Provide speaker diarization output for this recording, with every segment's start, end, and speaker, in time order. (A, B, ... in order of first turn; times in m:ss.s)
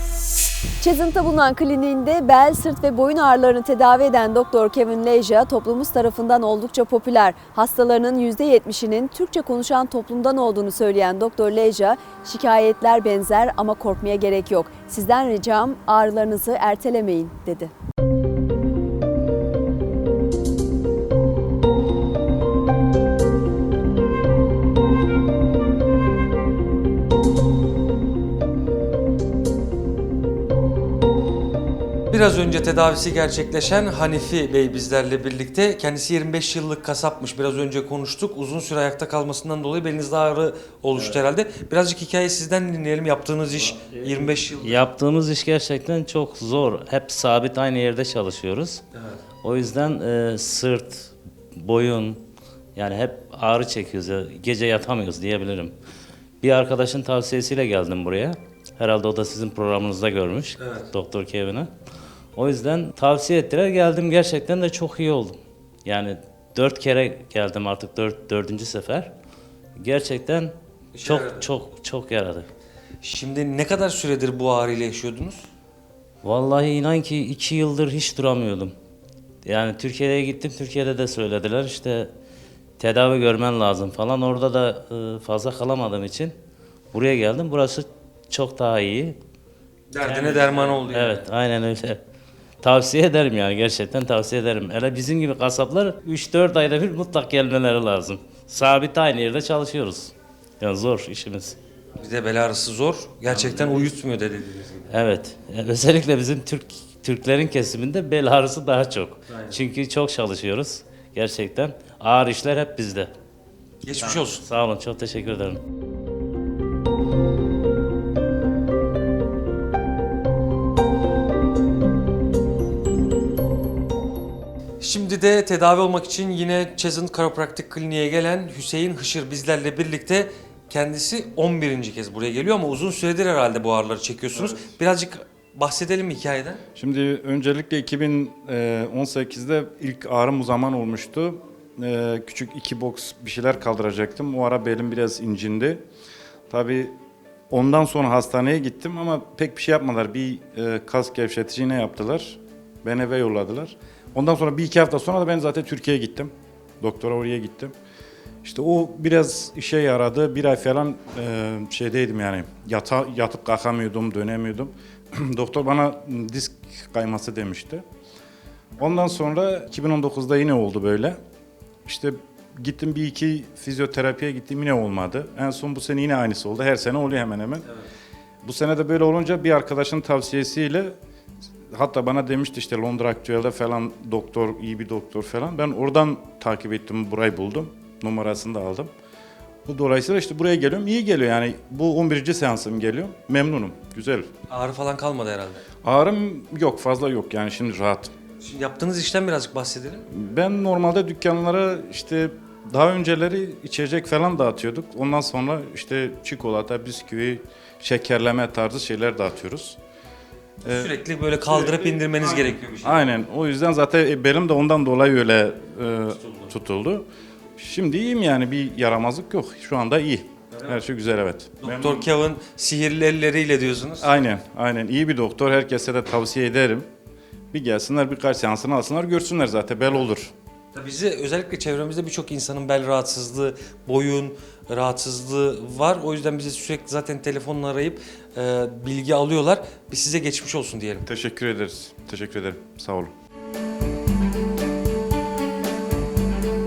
0:00.8-0:17.7 A
0:32.1-0:44.9 B
0:43.8-0:48.8 C
0:49.4-0:52.2 C
0:52.8-0:55.7 C
0:56.4-1:01.7 C
1:00.6-1:00.9 B
1:02.4-1:09.1 C
1:09.8-1:12.5 C
1:11.0-1:11.5 B
1:13.0-1:15.5 B
1:16.2-1:18.7 C
1:19.4-1:22.1 C
1:22.8-1:26.3 C
1:26.9-1:29.2 C
1:29.9-1:31.3 B
1:30.0-1:32.0 C
1:32.6-1:41.6 C
1:42.0-1:44.9 B
1:43.3-1:43.9 C
1:44.9-1:53.1 C
1:49.3-1:49.6 B
1:53.8-1:54.4 B
1:54.0-1:55.6 C
2:04.8-2:16.6 B
2:16.8-2:25.8 D
2:26.5-2:27.0 D
2:27.5-2:37.7 D
2:38.4-2:47.8 D
2:48.8-2:51.2 D
2:51.8-2:57.7 D
2:58.4-3:01.0 D
3:01.7-3:08.9 D
3:09.7-3:14.3 D
3:14.5-3:15.6 B
3:15.8-3:18.1 D
3:18.4-3:20.0 B
3:20.1-3:29.8 D
3:30.6-3:33.1 B
3:30.6-3:30.9 D
3:31.5-3:42.1 D
3:40.5-3:40.8 B
3:41.6-3:44.1 B
3:44.0-3:46.9 D
3:47.5-3:50.3 D
3:50.7-4:01.0 B
4:01.1-4:03.1 D